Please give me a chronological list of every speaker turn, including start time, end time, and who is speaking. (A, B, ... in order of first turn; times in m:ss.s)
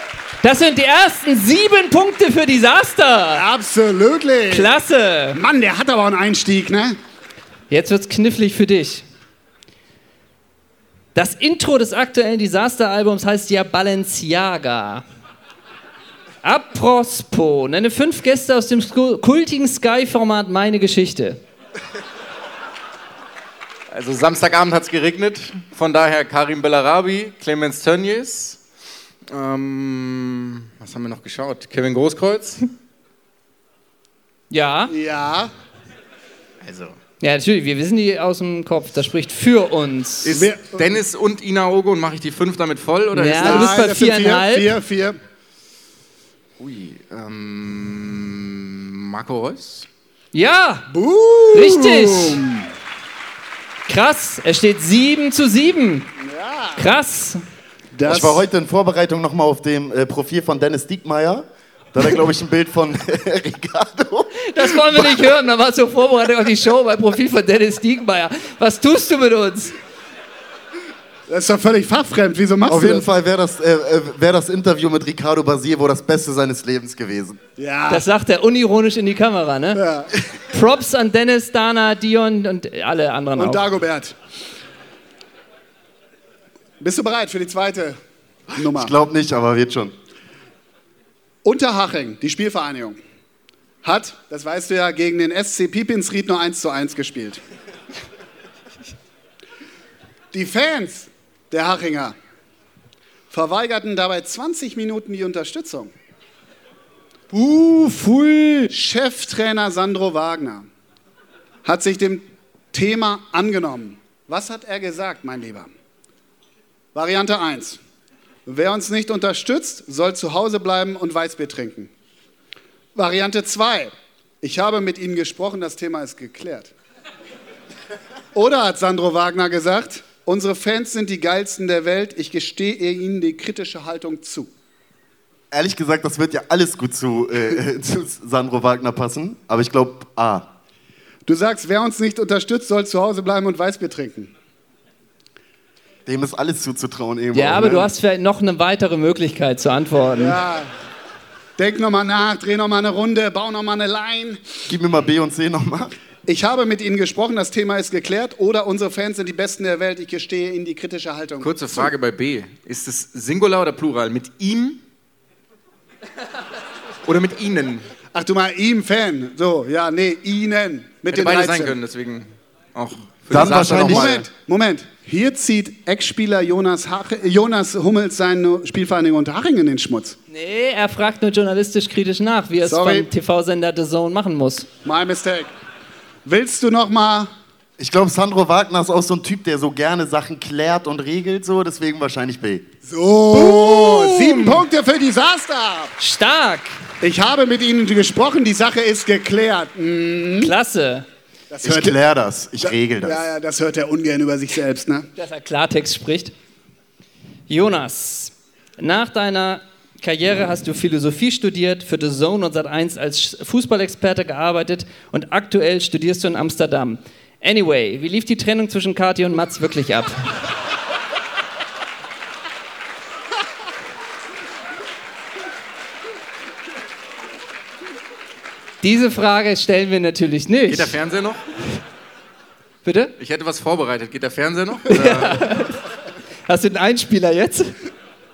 0:00.4-0:03.4 A
0:03.3-0:04.7 B
0:04.5-0:05.4 A
0:05.3-0:07.0 B
0:07.7-0:09.0 A
0:11.1-0:15.0 A
0:16.4-0:21.4 A
0:23.9-0:28.6 C
0:29.3-0:32.7 C
0:34.5-0:34.9 A
0:34.9-0:35.5 B
0:36.6-0:36.9 C
0:37.2-0:40.4 A
0:40.2-0:43.8 C
0:40.3-0:40.9 B
0:43.1-0:44.7 A
0:43.3-0:45.2 B
0:46.6-0:49.9 C
0:50.3-0:50.9 A
0:50.9-0:52.7 B
0:51.5-0:52.4 A
0:53.9-0:56.1 A
0:56.2-0:56.9 B
0:56.8-0:57.4 A
0:57.9-0:58.4 B
0:58.0-1:05.2 D
1:04.5-1:09.7 A
1:11.3-1:13.1 B
1:12.7-1:17.4 D
1:17.6-1:18.0 B
1:17.9-1:19.8 A
1:19.7-1:20.1 B
1:20.5-1:23.6 A
1:23.4-1:24.2 B
1:26.8-1:28.0 B
1:28.6-1:28.9 B
1:28.6-1:29.9 D
1:31.4-1:33.0 B
1:33.8-1:37.4 B
1:40.3-1:42.2 B
1:43.3-1:45.9 B
1:47.3-1:47.7 B
1:47.8-1:48.6 A
1:48.6-1:50.7 B
1:51.6-1:55.7 B
1:56.9-1:57.8 B
1:58.4-2:01.9 B
2:02.9-2:06.7 B
2:08.3-2:14.5 B
2:15.5-2:20.5 D
2:21.2-2:24.3 B
2:26.0-2:27.9 D
2:27.3-2:30.4 A
2:30.1-2:30.7 B
2:31.6-2:34.4 B
2:34.7-2:35.9 D
2:36.2-2:41.9 B
2:41.4-2:44.8 C
2:47.0-2:47.9 C
2:48.1-2:51.8 B
2:51.1-2:54.2 C
2:53.3-2:54.2 D
2:53.4-3:00.2 B
3:00.3-3:04.7 A
3:02.6-3:03.1 B
3:04.8-3:05.5 B
3:06.2-3:07.3 B
3:07.8-3:12.7 D
3:12.8-3:15.9 B
3:13.3-3:14.6 A
3:16.0-3:16.7 A
3:17.0-3:20.5 B
3:20.4-3:21.0 A
3:21.5-3:22.0 B
3:21.6-3:23.2 D
3:22.6-3:25.1 B
3:25.2-3:26.3 A
3:27.5-3:40.2 A
3:48.8-3:50.9 A
3:50.7-3:51.4 C
3:52.8-3:53.1 A
3:53.2-3:55.5 C
3:54.9-3:55.8 A
3:56.5-3:57.7 A